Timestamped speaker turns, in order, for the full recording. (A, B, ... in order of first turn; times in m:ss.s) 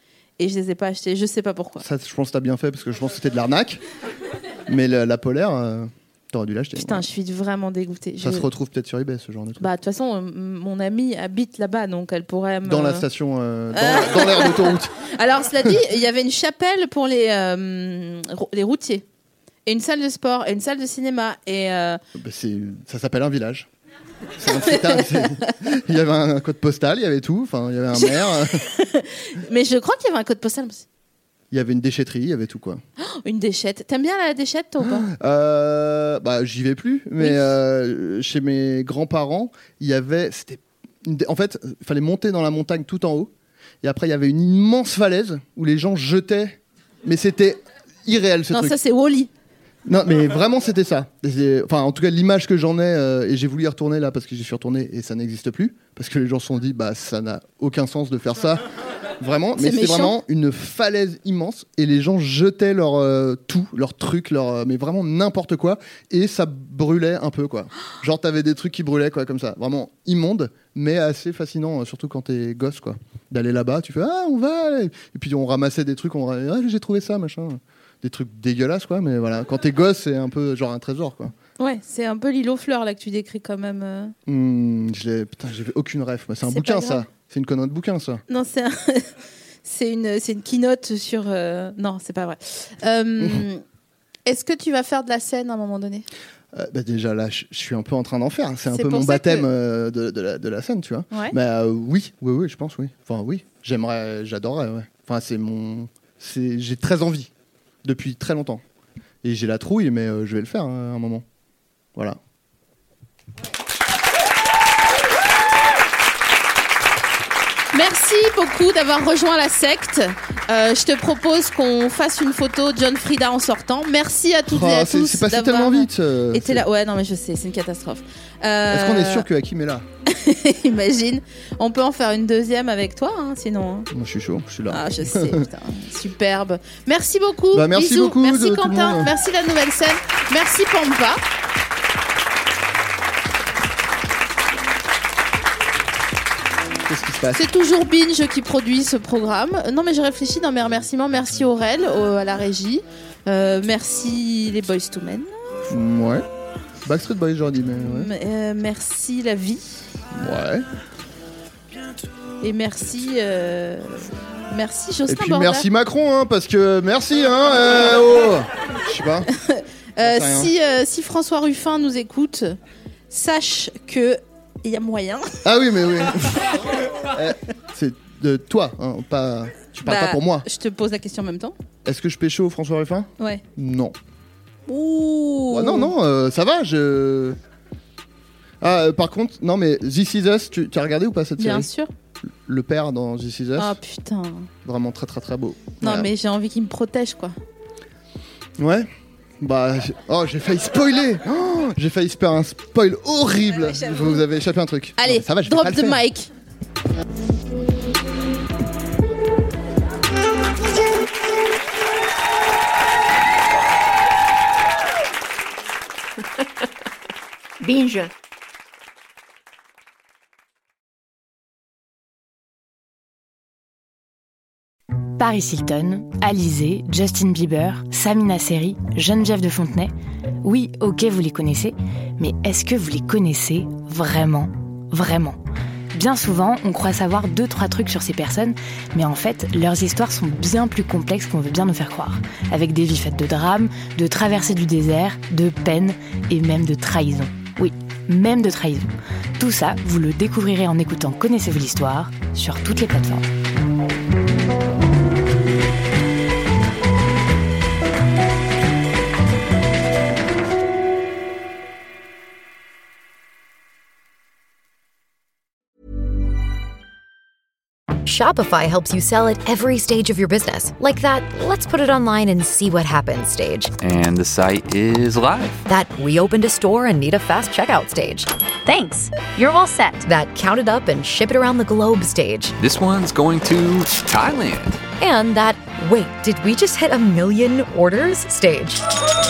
0:00.4-0:01.8 A
0:01.8-0:03.8 B
0:04.7-0:07.0 B
0:06.8-0:08.5 A
0:08.2-0:09.7 B
0:09.6-0:13.0 A
0:12.6-0:14.9 B
0:13.7-0:19.0 A
0:19.6-0:22.0 A
0:22.1-0:23.7 B
0:24.4-0:28.6 B
0:24.5-0:25.5 A
0:27.9-0:30.8 A
0:31.5-0:32.8 B
0:33.0-0:35.1 A
0:34.8-0:48.8 B
0:37.2-0:37.5 A
0:48.5-0:49.3 A
0:49.8-0:58.6 B
0:59.2-1:21.3 B
0:59.6-1:00.2 A
1:21.6-1:24.1 A
1:24.3-1:28.2 B
1:26.5-1:27.1 A
1:28.3-1:29.1 A
1:29.6-1:33.6 A
1:33.2-1:33.4 B
1:34.2-1:36.0 A
1:36.5-1:47.3 B
1:38.7-1:39.5 A
1:41.1-1:41.4 A
1:47.8-1:48.6 B
1:49.2-1:51.2 B
1:57.7-2:09.3 A
2:04.5-2:06.6 B
2:08.7-2:09.8 B
2:10.0-2:13.9 A
2:13.9-2:15.5 B
2:14.7-2:21.2 A
2:17.5-2:19.1 B
2:26.8-2:27.4 B
2:27.3-2:35.3 A
2:35.7-2:36.2 B
2:36.8-2:38.1 B
2:37.8-2:39.8 A
2:40.1-2:40.6 B
2:42.4-2:45.7 A
2:45.1-2:49.3 B
2:49.3-2:52.6 A
2:50.0-2:50.5 B
2:53.1-2:55.4 A
2:55.4-3:00.4 B
2:59.8-3:01.6 A
3:01.8-3:04.0 B
3:04.7-3:05.9 A
3:05.5-3:07.4 B
3:08.6-3:11.7 B
3:11.4-3:11.9 A
3:12.3-3:13.8 B
3:13.6-3:14.5 A
3:14.6-3:16.1 B
3:15.8-3:17.3 A
3:18.6-3:18.9 B
3:19.4-3:26.0 B
3:23.6-3:24.2 A
3:25.0-3:26.3 A
3:45.2-3:49.9 C
3:50.4-3:55.4 C
3:55.9-4:13.3 C
4:28.0-4:33.7 D
4:33.8-4:35.6 E
4:35.6-4:42.5 D
4:42.6-4:44.8 E
4:45.0-4:48.8 D